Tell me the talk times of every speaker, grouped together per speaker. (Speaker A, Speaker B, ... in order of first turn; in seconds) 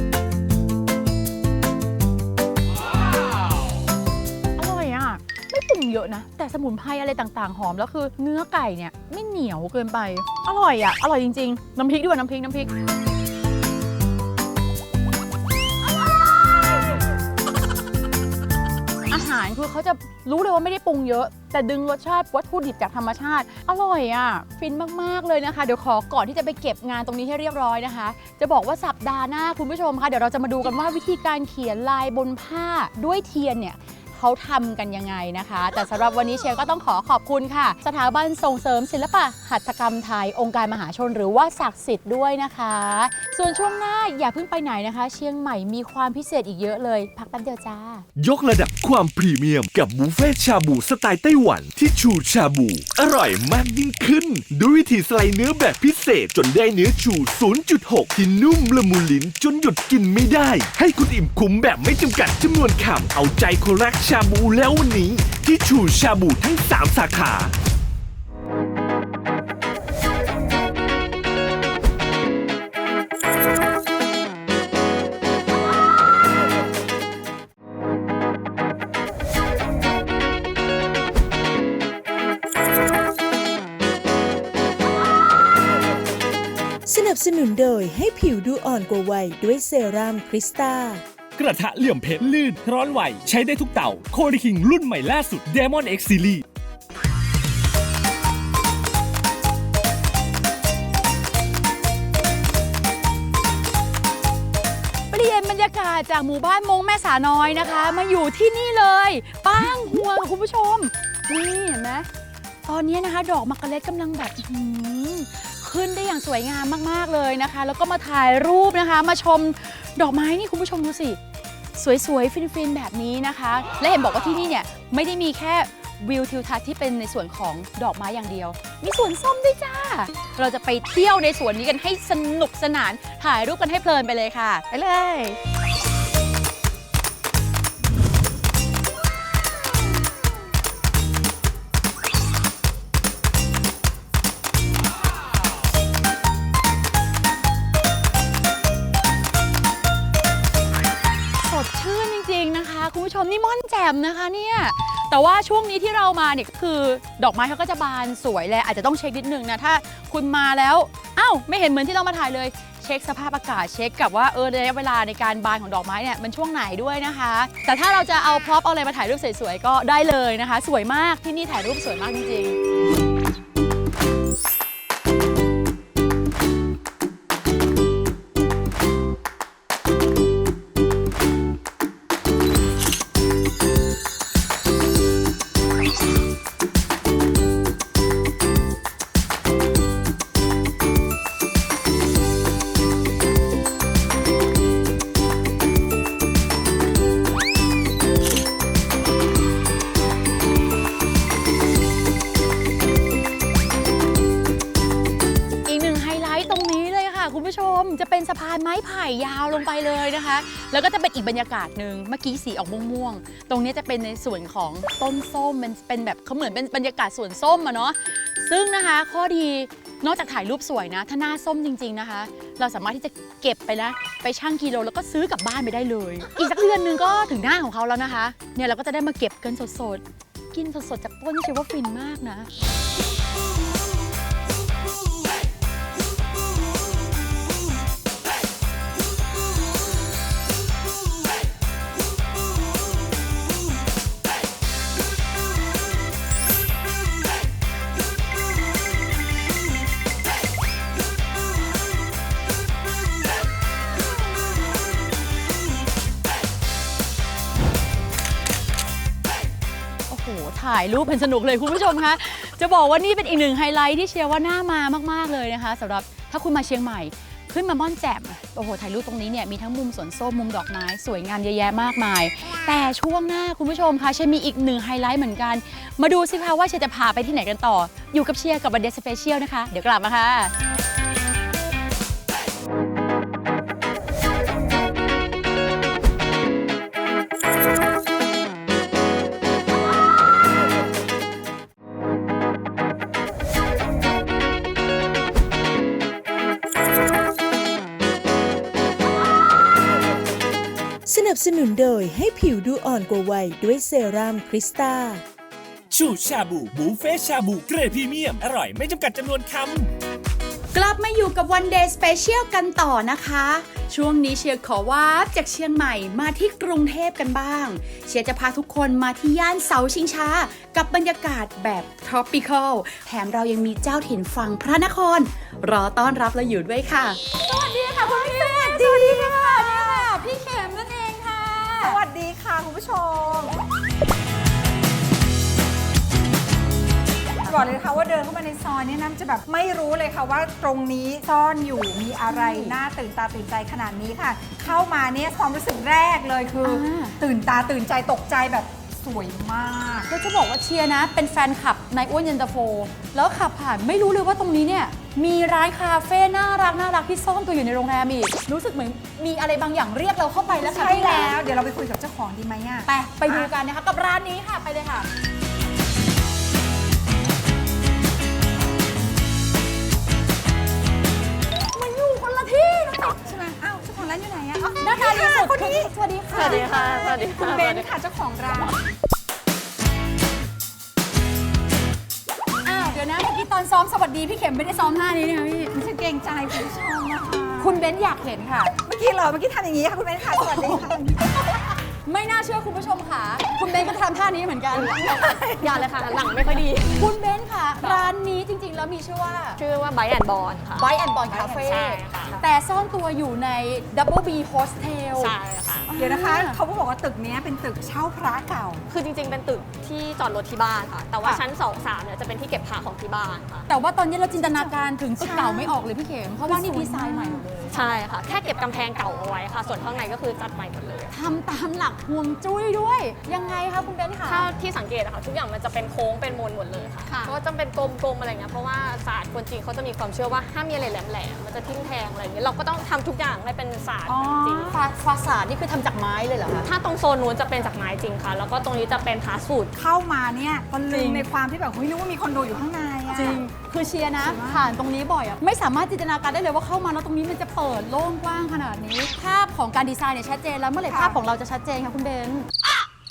Speaker A: 4.6-12.7, 19.1-48.0, 105.1-112.1, 112.7-121.2, 121.8-135.4, 151.4-172.6, 205.6-232.5, 260.1-280.5, 310.7-332.0, 342.3-342.8, 346.6-347.2, 350.1-361.3, 362.9-365.1, 371.7-373.2, 374.8-376.8, 382.6-385.7, 387.6-388.7, 390.3-390.9, 392.0-395.8, 396.7-399.6, 400.8-405.3, 405.9-406.6, 413.7-417.8, 421.1-424.5, 434.1-436.7, 440.9-441.2, 443.1-452.5
Speaker B: 48.1-67.5
Speaker C: 86.8-91.0, 301.1-305.2
Speaker D: 91.3-96.4, 305.9-309.9
Speaker E: 328.0-330.2, 331.8-333.6, 337.4-350.1, 360.5-363.5, 373.0-378.8, 382.6-383.0, 385.7-387.8, 388.8-391.4, 394.9-395.9, 401.2-401.8, 405.9-408.8, 414.4-415.8, 416.4-417.4, 427.1-427.3, 434.4-434.7, 439.7-443.4, 444.2-444.7, 450.9-451.2
Speaker F: 376.3-377.9, 395.4-397.1, 397.8-398.1, 399.6-400.9, 401.6-402.4, 405.2-405.9, 408.9-413.6, 417.7-421.1, 424.2-434.8, 436.6-439.7